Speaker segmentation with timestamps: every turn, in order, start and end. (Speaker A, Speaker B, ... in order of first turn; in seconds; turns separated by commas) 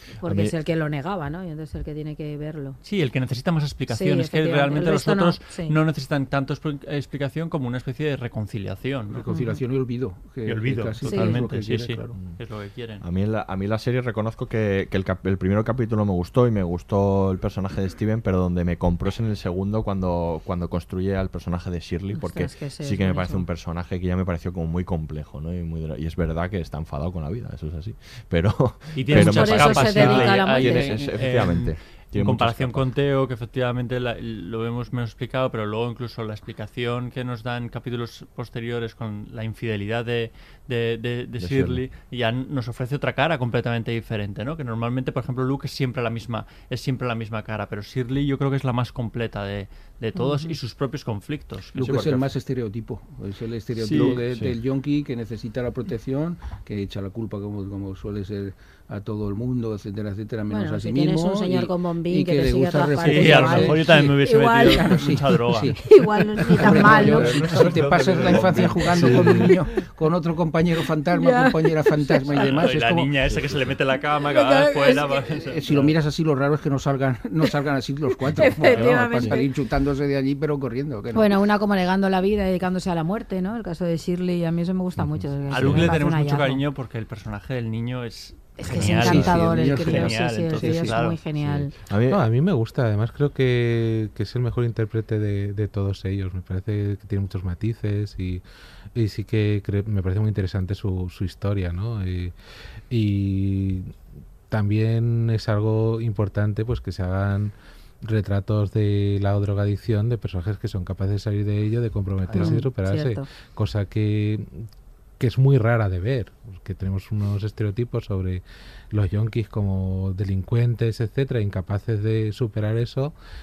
Speaker A: 0.2-2.8, Speaker B: 0.2-0.5, Speaker C: 2.8-9.2, Speaker A: 3.9-5.8, Speaker D: 9.1-12.2, Speaker A: 9.3-9.6, Speaker C: 10.4-13.0, Speaker A: 11.1-11.4, Speaker B: 13.0-32.9, Speaker A: 22.1-23.4, Speaker C: 28.9-52.3, Speaker A: 29.1-30.9, Speaker D: 30.8-31.1, Speaker B: 41.4-41.8, Speaker A: 50.1-50.5, Speaker D: 51.7-73.1, Speaker C: 53.8-54.2, Speaker B: 54.1-54.5, Speaker A: 60.5-65.0, Speaker C: 63.0-65.9, Speaker A: 65.8-67.5, Speaker C: 66.5-69.5, Speaker B: 67.1-69.5, Speaker A: 71.1-72.3, Speaker C: 72.3-75.9, Speaker B: 73.3-73.8, Speaker A: 74.2-75.2, Speaker D: 74.8-81.3, Speaker A: 78.4-79.5, Speaker A: 81.1-86.6, Speaker B: 85.0-85.9, Speaker C: 85.5-91.2, Speaker A: 88.6-91.7, Speaker D: 88.7-91.0, Speaker B: 91.4-92.2, Speaker E: 92.1-98.4, Speaker E: 99.0-102.3, Speaker E: 102.9-103.9, Speaker E: 104.5-114.6, Speaker A: 112.3-113.2, Speaker E: 115.2-123.1